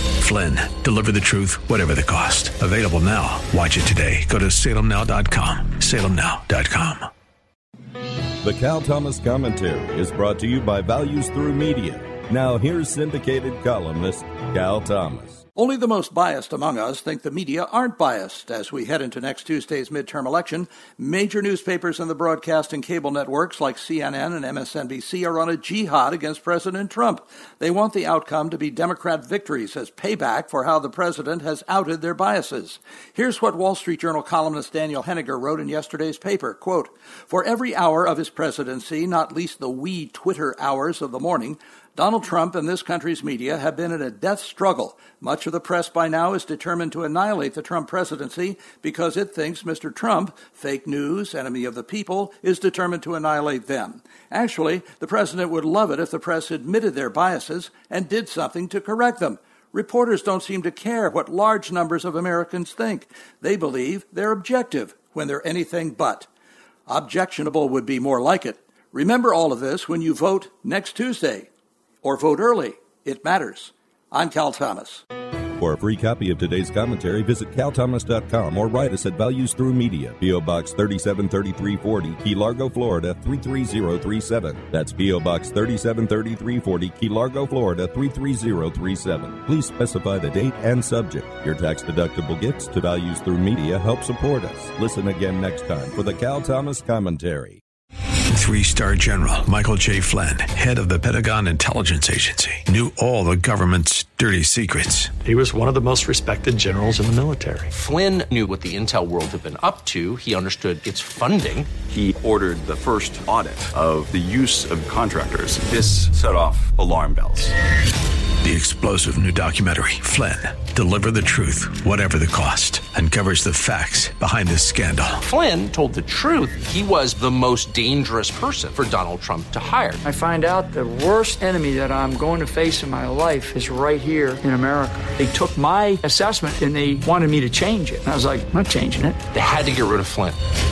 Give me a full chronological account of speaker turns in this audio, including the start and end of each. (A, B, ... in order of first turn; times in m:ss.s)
0:00.2-0:07.1 A
0:08.4-0:15.4 B
0:15.6-1:06.3 C
1:06.9-1:11.5 C
1:12.0-1:15.0 C
1:15.6-1:37.6 B
1:38.3-1:45.1 A
1:45.2-1:47.7 D
1:47.7-1:51.7 E
1:51.9-1:57.5 F
1:58.4-2:05.2 A
2:05.2-2:10.0 E
2:10.0-2:19.2 G
2:19.3-2:20.4 E